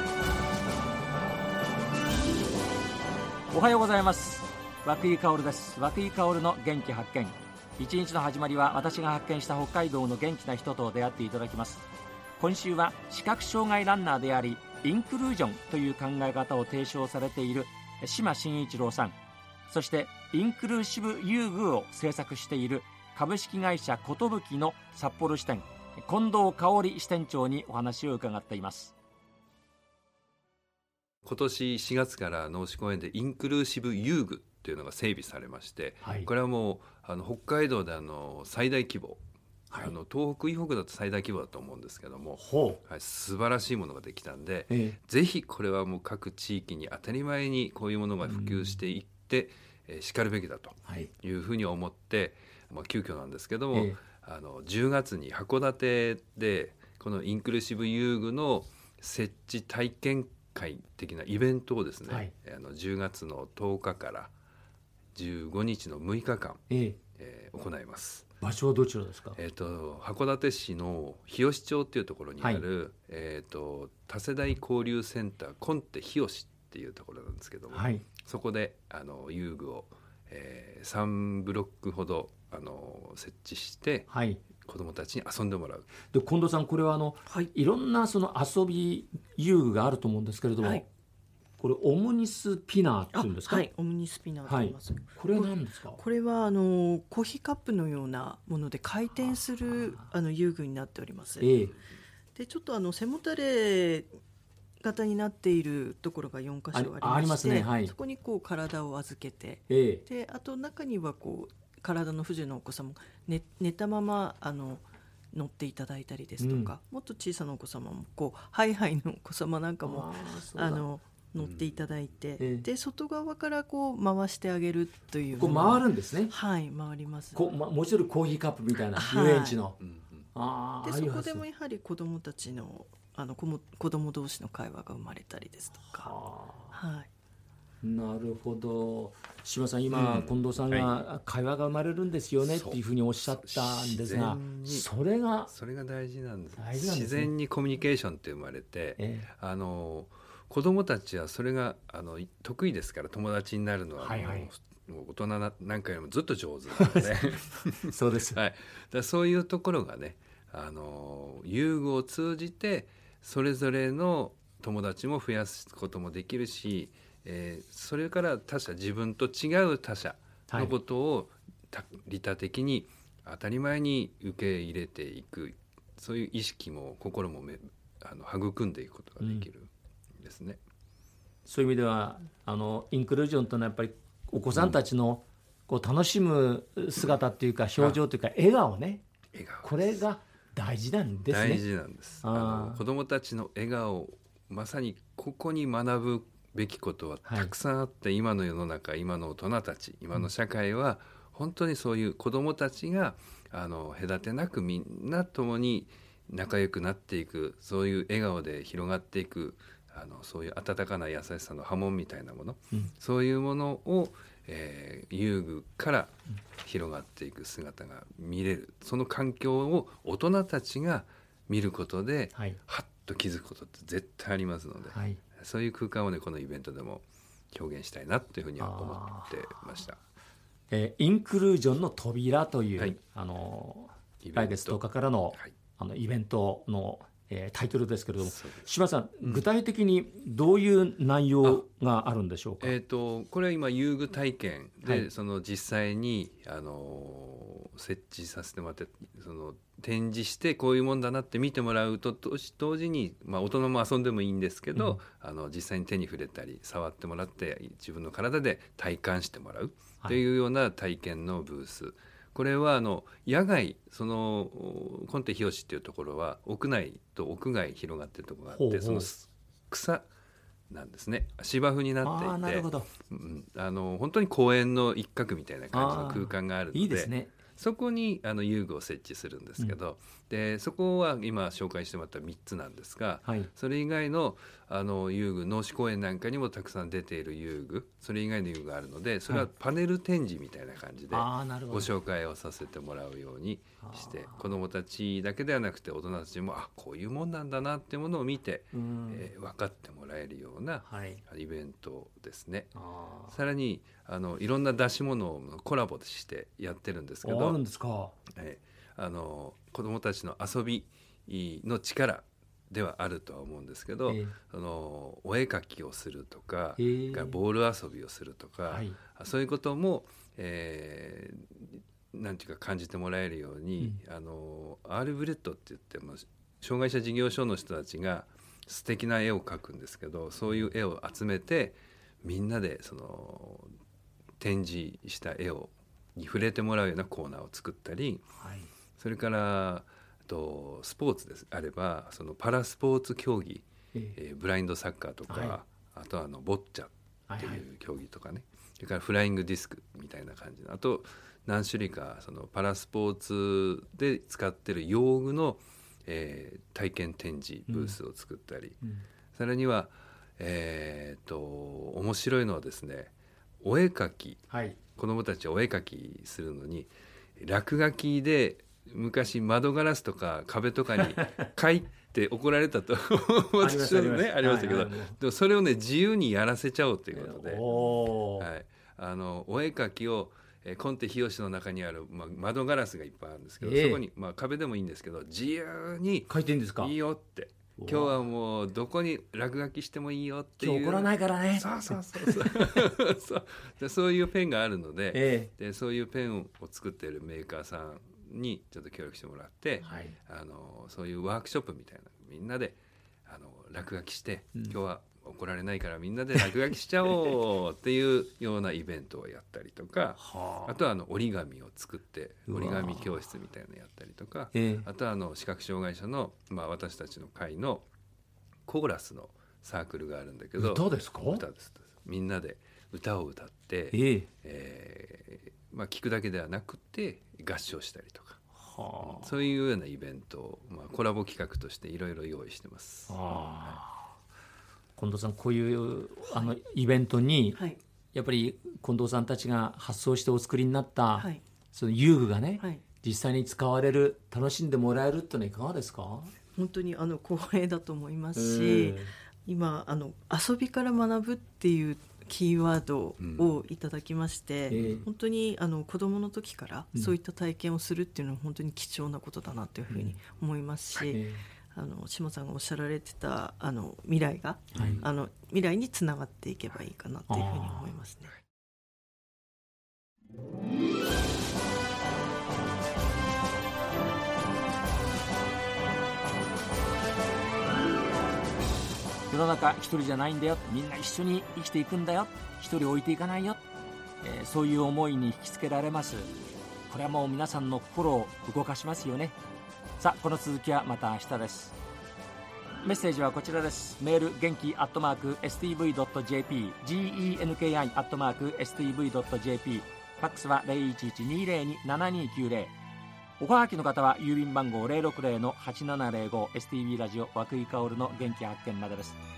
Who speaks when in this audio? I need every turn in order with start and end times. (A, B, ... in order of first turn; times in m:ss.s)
0:03.5-0:11.8 A
0:12.4-0:19.2 A
0:19.7-0:28.9 A
0:31.2-1:04.3 B
0:36.0-0:36.3 A
0:42.4-0:42.8 A
0:44.7-0:45.0 A
0:48.2-0:48.8 A
0:53.7-0:54.0 A
1:02.1-1:02.3 A
1:05.2-1:06.6 B
1:06.7-1:07.0 A
1:07.2-1:08.3 B
1:08.4-1:09.4 A
1:09.4-1:24.1 B
1:17.7-1:18.1 A
1:24.1-1:24.4 A
1:24.6-1:25.9 B
1:26.1-1:30.9 A
1:31.6-1:33.7 A
1:33.1-1:41.5 C
1:34.4-1:36.0 A
1:41.4-1:41.7 A
1:42.3-1:44.1 C
1:44.8-2:07.5 C
1:46.7-1:48.0 A
1:49.7-1:50.0 A
1:56.4-1:56.8 A
1:59.8-2:00.9 A
2:01.4-2:02.0 B
2:02.4-2:02.7 A
2:05.4-2:06.3 A
2:07.3-2:09.8 A
2:08.9-2:09.6 C
2:09.8-2:10.3 B
2:10.3-2:11.5 A
2:10.8-2:16.2 C
2:15.9-2:16.8 A
2:16.7-2:17.1 C
2:17.8-2:25.5 A
2:19.9-2:21.1 B
2:22.4-2:24.9 B
2:25.5-3:00.6 B
2:26.6-2:27.3 A
2:29.0-2:29.3 A
2:34.0-2:34.5 A
2:36.7-2:37.3 A
2:37.9-2:38.4 A
2:59.2-2:59.5 A
3:01.4-3:09.0 A
3:09.3-3:10.0 B
3:09.6-3:11.6 A
3:11.3-3:50.0 B
3:12.2-3:12.8 A
3:17.3-3:17.5 A
3:44.9-3:45.2 A
3:48.6-3:49.3 A
3:50.7-4:02.7 A
3:54.2-3:54.8 B
3:58.2-3:58.7 B
4:02.6-4:30.1 B
4:14.7-4:15.0 A
4:28.5-4:29.1 A
4:30.7-5:02.7 B
4:32.0-4:32.9 A
4:35.7-4:37.3 A
4:51.1-4:51.9 A
4:53.8-4:54.5 A
4:58.7-4:59.3 A
5:00.8-5:01.2 A
5:02.8-5:03.4 A
5:03.3-5:07.6 B
5:07.2-5:08.2 A
5:08.4-5:33.7 B
5:14.1-5:14.3 A
5:16.8-5:17.4 A
5:18.7-5:19.0 A
5:34.4-5:38.2 B
5:38.4-5:38.7 A
5:39.0-5:58.8 B
5:45.3-5:45.6 A
5:47.3-5:47.6 A
5:57.7-5:58.0 A
5:59.3-6:04.4 B
6:04.5-6:04.8 A
6:05.0-6:17.6 B
6:11.0-6:11.3 A
6:13.6-6:15.2 A
6:17.1-6:18.5 A
6:18.4-6:57.9 B
6:23.6-6:24.0 A
6:26.3-6:26.9 A
6:27.8-6:28.2 A
6:30.6-6:32.8 A
6:35.1-6:35.5 A
6:39.8-6:40.1 A
6:50.2-6:50.8 A
6:52.5-6:53.2 A
6:54.5-6:54.9 A
6:58.7-7:08.4 B
7:00.6-7:01.4 A
7:03.9-7:04.3 A
7:08.6-7:09.3 A
7:09.0-7:13.8 B
7:13.1-7:14.1 A
7:15.0-7:17.6 A
7:17.6-7:17.8 C
7:18.1-7:26.3 A
7:21.2-7:21.4 C
7:26.5-7:48.4 C
7:28.4-7:29.1 A
7:33.2-7:33.6 B
7:34.7-7:35.0 A
7:34.7-7:35.1 B
7:39.9-7:40.2 A
7:41.0-7:41.4 A
7:44.7-7:45.0 B
7:44.7-7:45.1 A
7:47.3-7:47.8 A
7:59.3-8:03.6 A
8:04.2-8:06.3 A
8:06.9-8:09.4 A
8:10.0-8:11.8 A
8:12.8-8:22.7 A
8:23.4-8:29.2 A